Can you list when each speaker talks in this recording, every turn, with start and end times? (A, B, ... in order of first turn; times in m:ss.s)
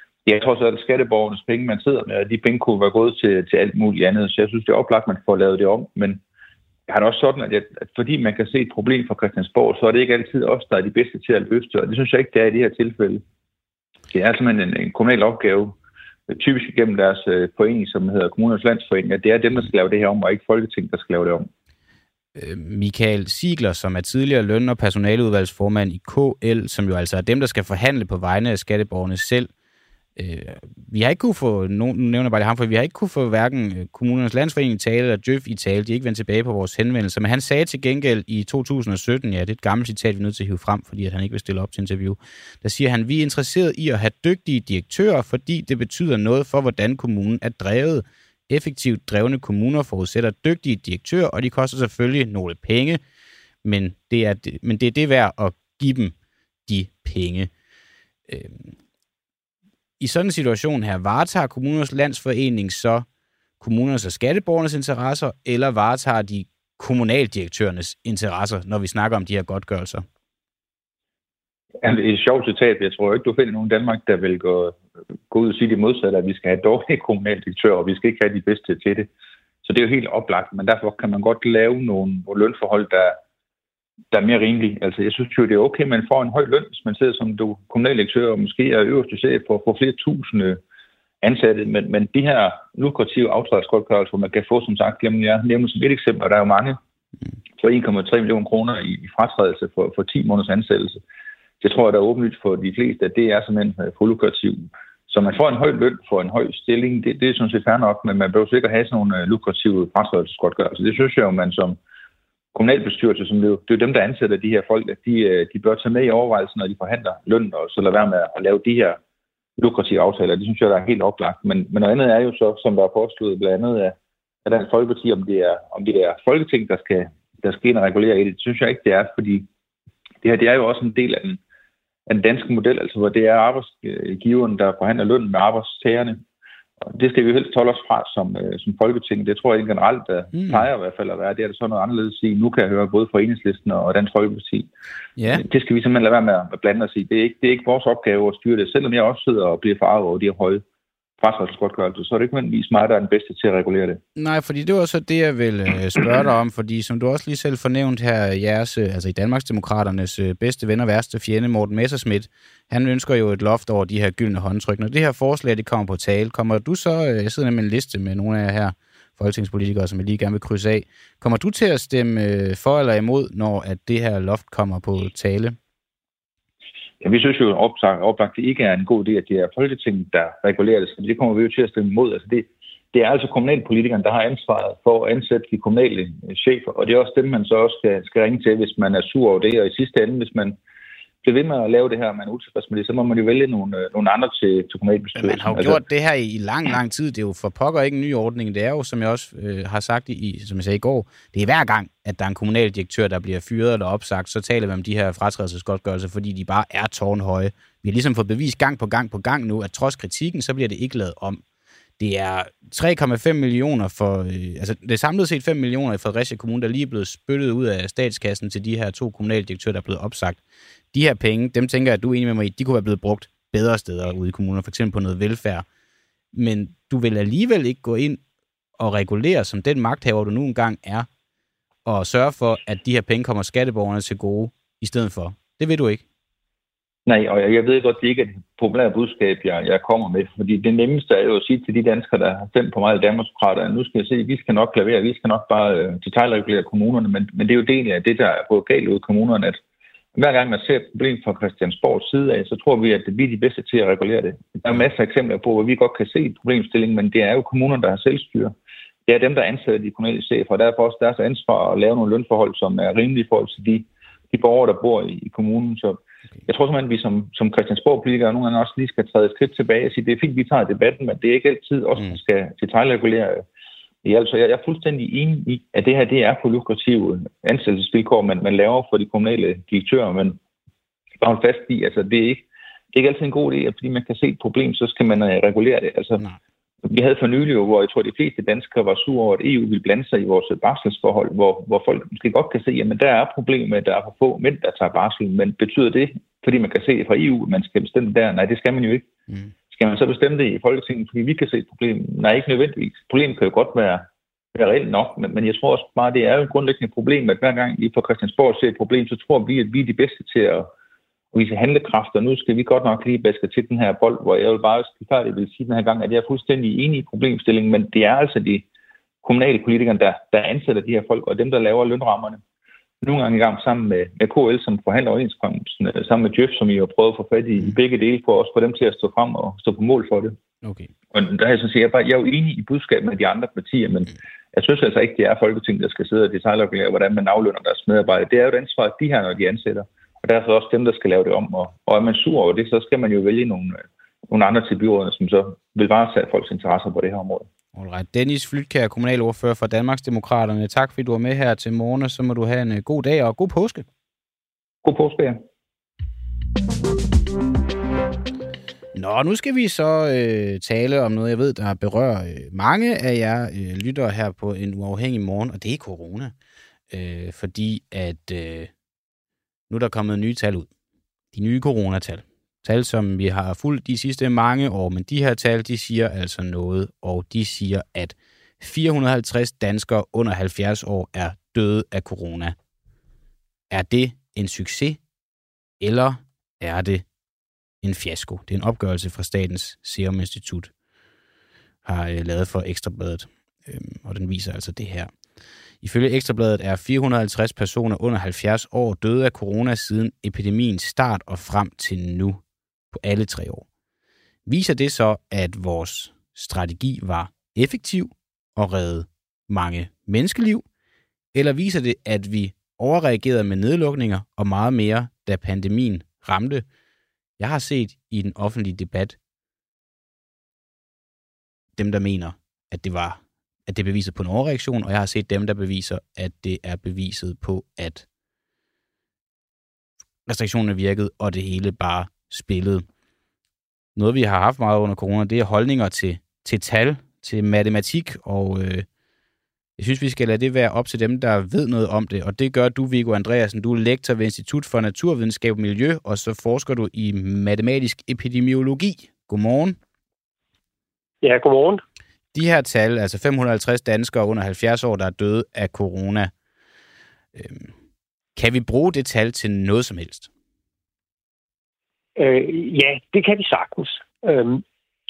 0:00.2-0:06.2 A
0:06.9-0:13.2 A
0:14.1-0:15.8 A
0:16.3-0:21.5 A
0:22.3-0:29.5 B
0:30.2-0:53.0 B
0:53.6-0:56.1 B
0:56.7-0:57.5 B
0:58.3-0:58.7 B
1:00.0-1:03.0 B
1:03.6-1:10.0 B
1:11.8-1:14.8 A
1:15.3-1:19.1 A
1:19.6-1:23.2 A
1:24.1-1:30.6 A
1:31.2-1:36.8 A
1:37.6-1:41.0 A
1:41.6-1:51.8 A
1:52.5-1:59.0 A
1:59.6-2:09.4 A
2:10.2-2:11.4 A
2:12.1-2:16.2 A
2:16.8-2:24.7 A
2:20.3-2:20.7 B
2:25.2-2:25.4 B
2:25.3-2:30.6 A
2:31.2-2:34.0 A
2:34.2-2:55.6 B
2:57.0-3:10.6 A
3:11.2-3:15.8 A
3:15.2-3:31.4 B
3:32.0-3:40.4 B
3:40.9-3:45.6 B
3:46.3-3:48.2 B
3:48.8-3:51.1 B
3:51.8-3:56.0 B
3:57.0-4:09.6 A
4:10.1-4:18.5 A
4:19.0-4:33.4 A
4:34.0-4:40.4 A
4:41.2-4:46.2 A
4:46.8-4:59.1 A
4:59.7-5:10.7 A
5:11.3-5:18.6 A
5:19.2-5:22.4 A
5:23.0-5:30.4 A
5:30.6-5:30.9 B
5:31.1-5:47.5 A
5:47.7-5:53.8 B
5:54.8-5:55.4 A
5:58.9-6:06.3 B
6:06.9-6:08.7 B
6:09.7-6:10.7 B
6:11.3-6:22.5 B
6:23.7-6:25.0 B
6:25.8-6:27.0 B
6:27.8-6:30.7 B
6:31.8-6:35.1 B
6:35.8-6:42.4 B
6:42.9-6:43.6 B
6:44.4-6:50.6 B
6:51.3-6:56.6 B
6:57.4-6:59.2 B
7:01.8-7:08.0 B
7:10.2-7:12.8 B
7:14.0-7:18.8 B
7:19.8-7:29.8 B
7:31.2-7:31.8 C
7:32.3-7:36.3 B
7:37.3-7:37.7 B
7:38.4-7:40.3 B
7:42.2-7:44.6 C